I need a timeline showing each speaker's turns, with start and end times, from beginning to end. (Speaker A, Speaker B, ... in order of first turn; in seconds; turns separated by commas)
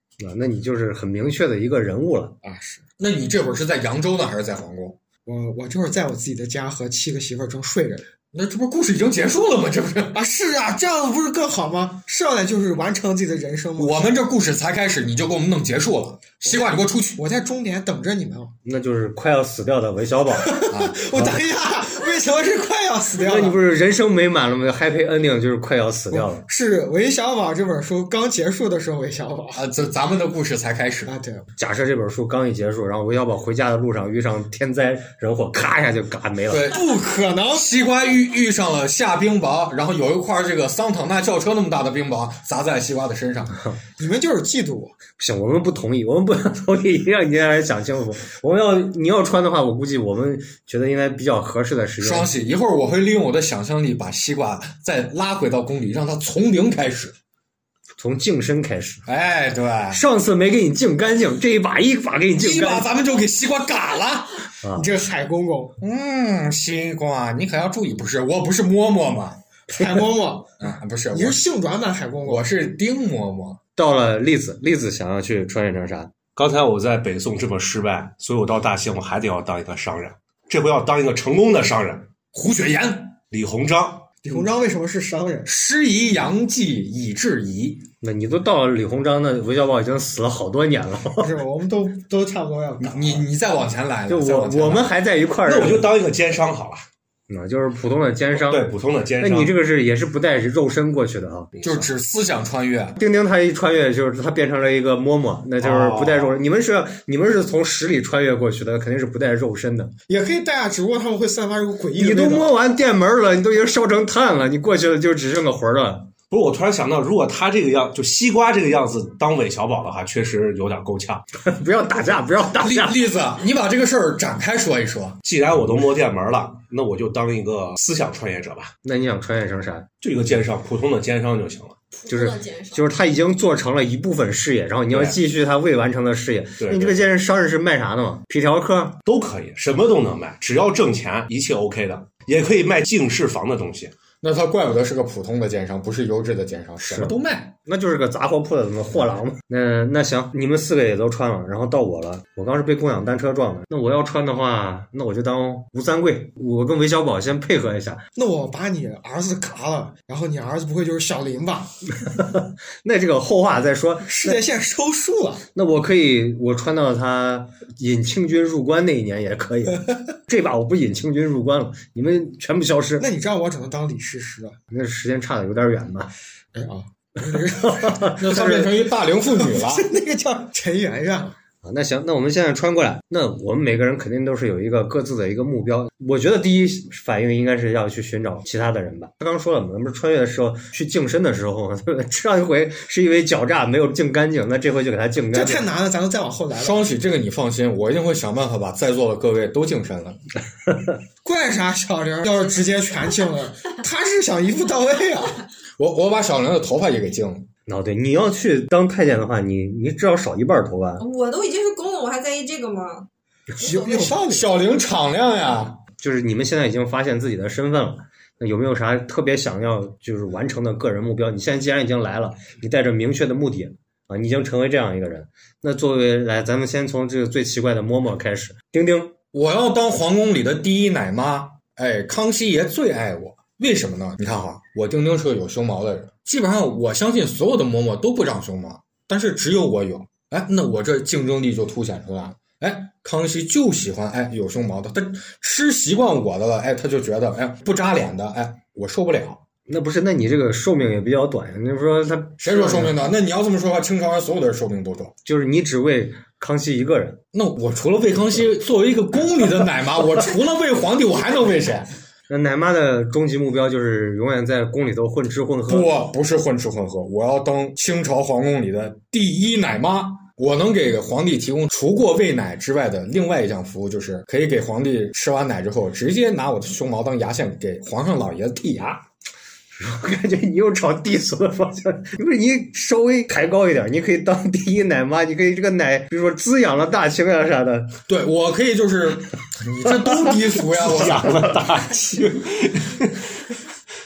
Speaker A: 0.2-2.3, Speaker B: 2.4-2.8, Speaker C: 3.0-5.0, Speaker B: 5.2-8.1, Speaker C: 8.3-10.2, Speaker B: 10.1-14.2, Speaker C: 13.8-17.2, Speaker B: 16.4-18.5, Speaker A: 18.6-21.4, Speaker B: 20.3-23.6, Speaker C: 20.7-21.0, Speaker A: 23.2-26.4, Speaker B: 26.1-29.7, Speaker C: 29.5-31.1, Speaker B: 31.1-31.4, Speaker A: 31.6-36.7, Speaker C: 36.5-37.0, Speaker B: 36.7-37.7, Speaker C: 37.5-43.6, Speaker B: 44.0-44.9, Speaker A: 45.2-52.3, Speaker C: 52.0-57.1, Speaker A: 58.0-59.0, Speaker C: 59.0-60.0, Speaker A: 59.9-62.9, Speaker C: 62.4-64.5, Speaker A: 64.6-64.9, Speaker B: 64.7-65.8, Speaker C: 65.8-69.4, Speaker B: 69.7-72.5, Speaker C: 70.6-71.4, Speaker C: 72.2-73.6, Speaker A: 73.8-76.1, Speaker D: 76.3-82.1, Speaker C: 82.3-83.1, Speaker D: 83.2-84.1, Speaker B: 84.2-85.5, Speaker C: 85.5-87.8, Speaker A: 88.0-91.3, Speaker B: 91.2-93.3, Speaker C: 92.8-94.9, Speaker A: 94.1-95.9, Speaker D: 95.4-96.8, Speaker A: 97.3-98.7, Speaker D: 98.3-99.5, Speaker A: 99.2-101.5, Speaker D: 101.5-101.8, Speaker C: 101.6-103.0, Speaker A: 103.0-109.9, Speaker D: 105.6-106.4, Speaker B: 110.1-112.5, Speaker A: 112.0-116.1, Speaker D: 116.3-121.2, Speaker A: 121.4-123.0, Speaker C: 122.6-125.2, Speaker D: 125.2-128.7, Speaker A: 128.8-129.9, Speaker D: 130.0-131.8, Speaker E: 131.9-132.9, Speaker A: 132.1-139.0, Speaker D: 134.9-135.2, Speaker D: 136.6-137.1, Speaker D: 139.1-143.9, Speaker C: 144.2-147.5, Speaker A: 146.9-158.0, Speaker B: 158.1-161.7, Speaker A: 162.1-164.4, Speaker B: 164.0-165.4, Speaker A: 165.5-173.1, Speaker B: 173.0-174.6, Speaker A: 174.7-176.1, Speaker B: 176.5-178.7, Speaker A: 177.6-178.2, Speaker C: 178.2-179.8, Speaker B: 179.2-181.3, Speaker A: 181.6-195.7, Speaker B: 195.3-196.9, Speaker C: 196.6-200.2, Speaker B: 201.2-205.4, Speaker C: 205.8-207.5, Speaker A: 207.7-211.0, Speaker E: 211.0-213.1, Speaker E: 213.6-214.1, Speaker B: 213.6-214.5, Speaker C: 214.2-215.8, Speaker A: 216.0-229.1, Speaker C: 229.3-249.4, Speaker A: 249.7-253.0, Speaker C: 252.4-255.1, Speaker A: 255.2-257.2, Speaker C: 257.3-261.9, Speaker A: 262.3-265.9, Speaker C: 265.7-279.0, Speaker A: 279.7-288.0, Speaker C: 288.1-291.5, Speaker D: 290.7-293.2